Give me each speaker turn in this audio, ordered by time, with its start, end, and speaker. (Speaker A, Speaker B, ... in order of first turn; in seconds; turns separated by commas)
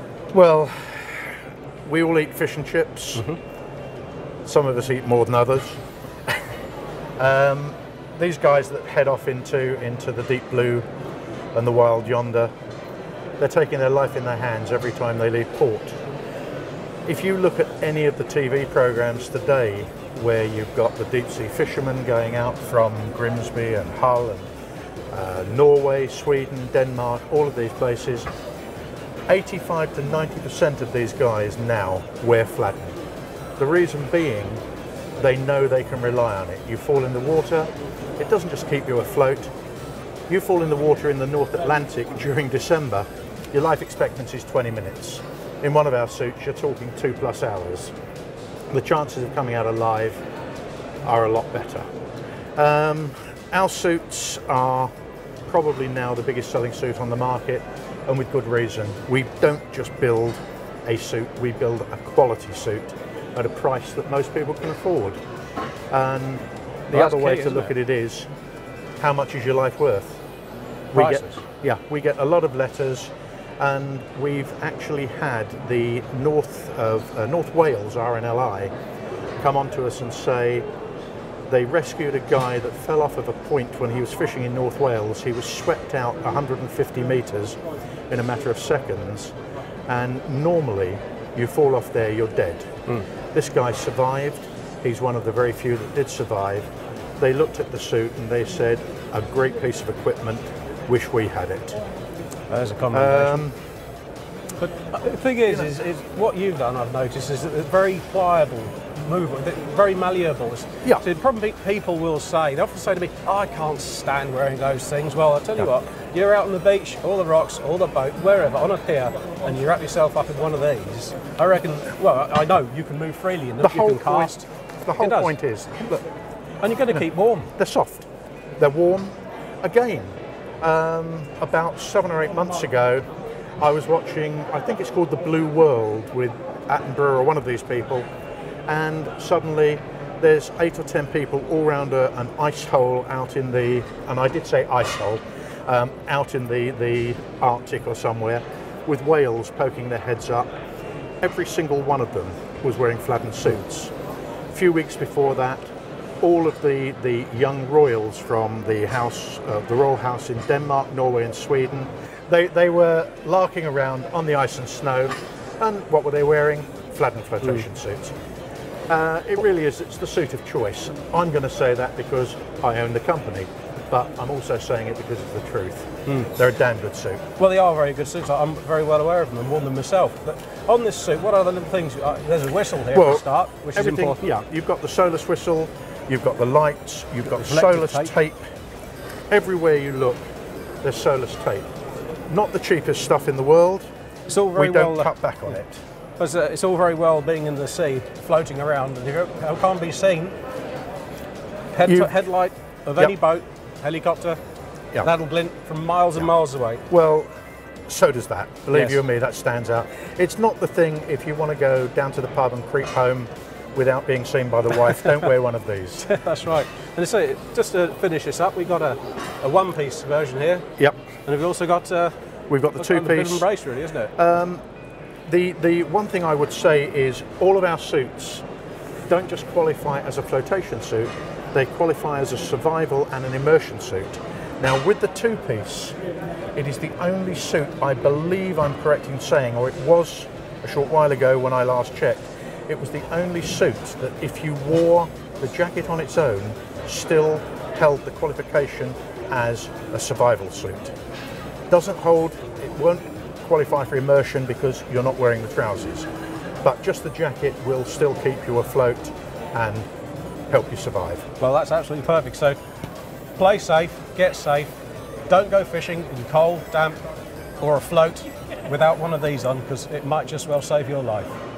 Speaker A: 0.3-3.3, Speaker A: 4.5-5.8, Speaker A: 7.2-10.8, Speaker A: 11.5-12.5, Speaker A: 13.4-16.0, Speaker A: 17.1-24.5, Speaker A: 25.1-28.3, Speaker A: 29.3-33.0, Speaker A: 33.6-34.6, Speaker A: 35.2-39.5, Speaker A: 40.3-47.9, Speaker A: 48.7-50.2, Speaker A: 51.0-51.9, Speaker A: 52.6-54.9, Speaker A: 55.5-65.2, Speaker A: 65.9-68.3, Speaker B: 66.9-67.7, Speaker A: 69.0-70.2, Speaker A: 70.9-78.7, Speaker B: 71.0-71.4, Speaker A: 79.4-80.7, Speaker A: 81.5-89.3, Speaker A: 89.9-92.7, Speaker A: 93.3-96.7, Speaker A: 97.2-101.8, Speaker B: 102.5-103.4, Speaker A: 102.9-103.6, Speaker B: 104.6-124.5, Speaker A: 123.6-126.0, Speaker B: 125.0-125.4, Speaker B: 126.6-127.5, Speaker A: 127.6-128.1, Speaker A: 128.6-133.1, Speaker A: 133.6-138.1, Speaker A: 138.7-150.5, Speaker A: 151.2-153.9, Speaker A: 154.5-155.7, Speaker A: 156.2-168.1, Speaker A: 168.9-177.2, Speaker B: 177.4-184.2, Speaker A: 182.9-188.5, Speaker B: 187.3-188.1, Speaker A: 189.3-190.2, Speaker A: 190.8-191.7, Speaker A: 192.3-193.9, Speaker B: 194.3-195.6, Speaker A: 194.6-195.8, Speaker B: 196.2-200.3, Speaker B: 201.7-204.4, Speaker A: 201.8-202.1, Speaker B: 205.0-206.8, Speaker A: 206.9-207.3, Speaker A: 207.9-216.1, Speaker B: 208.7-209.0, Speaker B: 216.1-220.7, Speaker B: 221.2-222.1, Speaker A: 222.5-223.5, Speaker B: 222.8-224.1, Speaker A: 224.2-224.6, Speaker A: 225.3-228.4, Speaker A: 229.1-236.0, Speaker A: 236.6-250.9, Speaker A: 251.7-256.1, Speaker A: 256.6-259.9, Speaker A: 260.5-261.3, Speaker B: 261.4-262.6, Speaker B: 263.4-264.7, Speaker B: 265.3-267.0, Speaker B: 267.6-271.4